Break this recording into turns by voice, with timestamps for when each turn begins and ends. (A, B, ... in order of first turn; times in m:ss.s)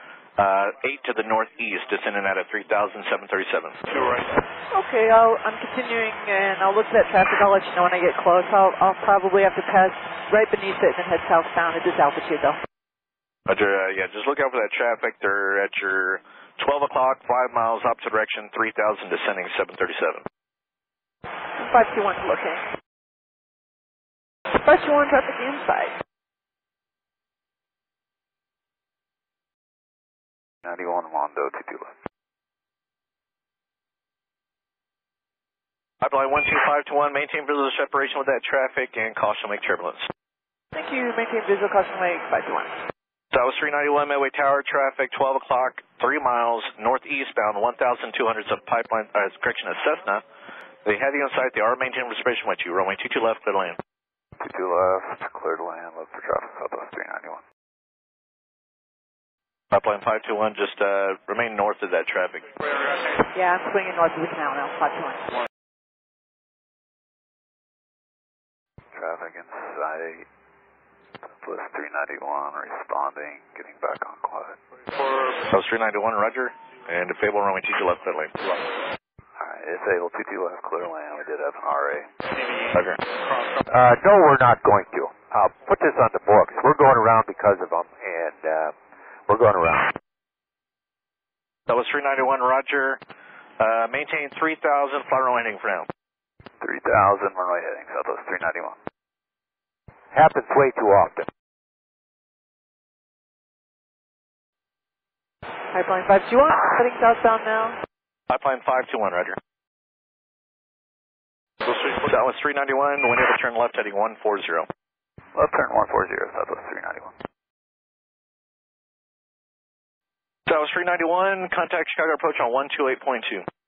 0:00.4-0:03.8 A
0:04.7-0:12.6 B
0:13.5-0:20.2 A
0:21.5-0:22.7 B
0:24.5-0:26.0 B
0:30.6-0:31.9 C
0:36.0-0:40.1 A
0:40.8-0:42.8 B
0:43.3-0:50.2 A
0:50.8-0:53.8 A
0:54.4-0:57.4 C
0:59.7-1:02.5 A
1:03.3-1:05.4 B
1:08.9-1:10.3 C
1:11.4-1:14.6 C
1:15.5-1:18.5 A
1:19.4-1:22.1 C
1:22.7-1:23.0 A
1:23.7-1:28.7 D
1:29.3-1:29.9 D
1:31.7-1:33.0 A
1:33.6-1:35.9 A
1:36.6-1:38.8 C
1:40.1-1:41.3 D
1:45.7-1:47.8 B
1:48.3-1:49.4 A
1:51.7-1:54.7 A
1:55.4-1:57.1 C
2:00.5-2:03.4 A